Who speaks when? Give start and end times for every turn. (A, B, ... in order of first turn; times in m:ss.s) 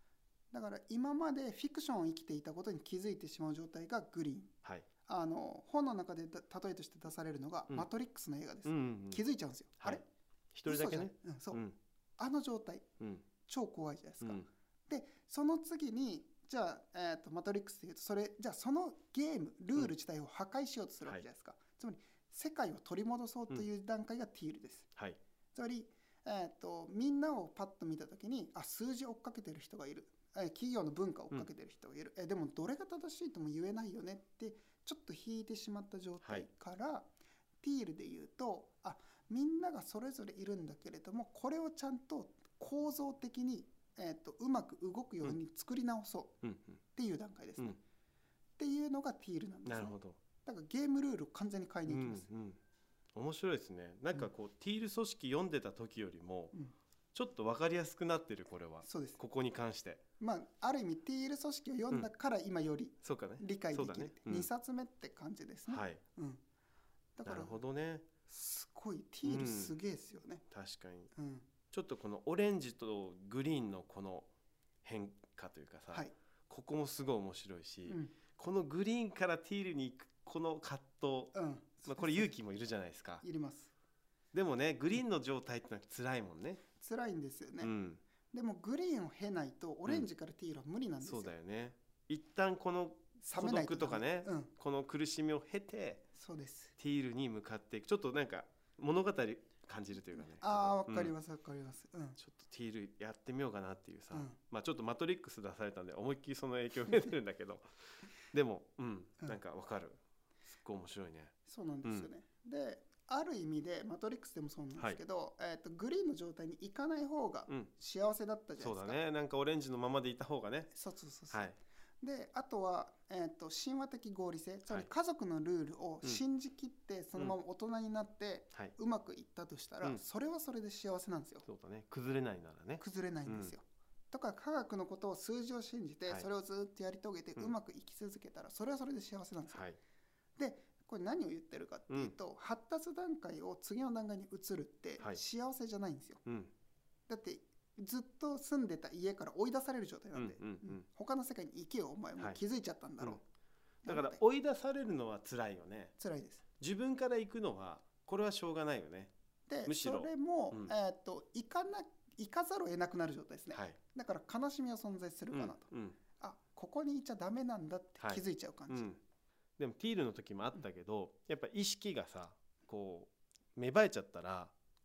0:00.5-0:04.5 A
0:05.0-0:10.0 A
0:08.6-0:09.2 B
0:09.8-0:11.8 B
0:10.7-0:11.6 A
0:12.2-0:12.8 A
0:13.0-0:13.2 B
0:13.4-0:24.9 A
0:25.5-0:37.1 A
0:37.6-0:46.4 A
0:46.4-0:46.8 B
0:46.9-0:47.8 A
0:48.6-0:52.3 A
0:49.6-0:50.2 B
0:51.9-0:52.6 B
0:53.1-0:56.5 B
0:57.1-1:00.0 B
0:58.8-0:59.2 A
1:00.2-1:06.4 A
1:03.0-1:04.5 B
1:05.7-1:06.0 B
1:07.2-1:07.6 A
1:07.2-1:08.1 B
1:08.3-1:10.4 A
1:09.2-1:09.8 B
1:10.5-1:11.1 B
1:11.1-1:11.5 A
1:11.7-1:14.3 B
1:14.8-1:21.3 B
1:17.8-1:18.1 A
1:21.3-1:22.3 A
1:21.8-1:23.2 B
1:23.2-1:23.7 A
1:24.3-1:26.6 B
1:26.8-1:27.7 A
1:27.6-1:28.0 B
1:28.3-1:31.3 A
1:31.0-1:36.1 B
1:33.2-1:34.5 A
1:36.1-1:36.7 A
1:36.8-1:41.1 B
1:40.1-1:42.2 A
1:42.2-1:47.6 B
1:44.1-1:44.4 A
1:46.9-1:47.1 A
1:48.3-1:52.1 B
1:51.4-1:59.0 A
1:58.6-2:00.7 B
2:00.7-2:01.4 A
2:01.3-2:01.6 B
2:02.0-2:11.4 A
2:11.4-2:13.5 B
2:12.8-2:19.7 A
2:19.5-2:19.8 B
2:20.4-2:26.2 A
2:21.9-2:22.1 B
2:26.2-2:26.5 B
2:27.1-2:33.2 A
2:30.1-2:30.8 B
2:33.8-2:34.2 A
2:33.8-2:35.9 B
2:36.0-2:36.4 A
2:36.6-2:39.1 B
2:39.5-2:48.9 A
2:39.6-2:40.7 B
2:43.5-2:43.8 B
2:45.3-2:46.0 B
2:48.0-2:49.0 B
2:49.6-2:54.5 B